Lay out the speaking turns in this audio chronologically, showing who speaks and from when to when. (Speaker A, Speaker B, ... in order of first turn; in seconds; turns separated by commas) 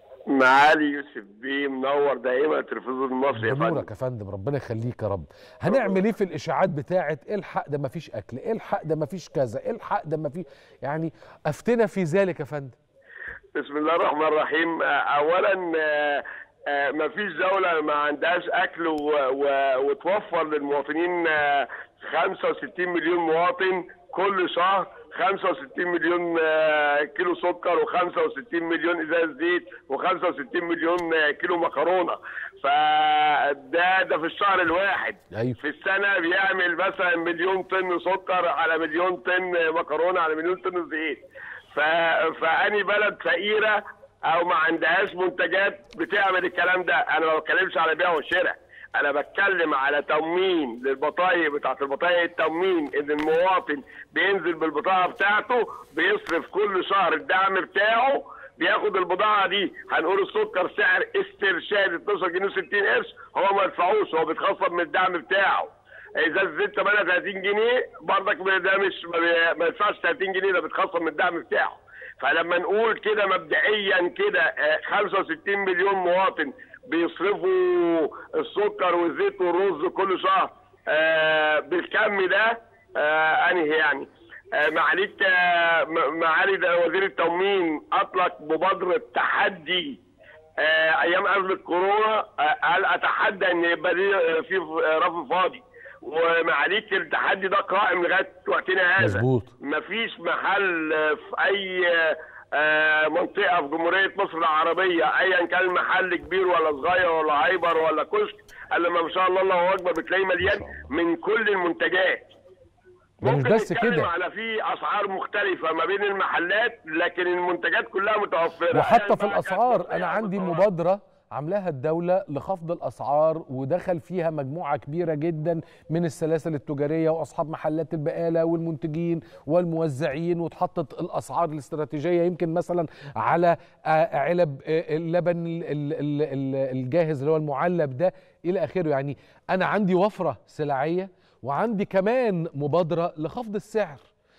Speaker A: 0.3-3.9, Speaker B: 3.3-12.8, Speaker A: 5.7-6.0, Speaker A: 13.6-90.0, Speaker A: 90.6-112.3, Speaker B: 99.0-99.5, Speaker B: 110.4-110.9, Speaker B: 113.2-114.1, Speaker A: 113.2-120.7, Speaker B: 118.7-144.1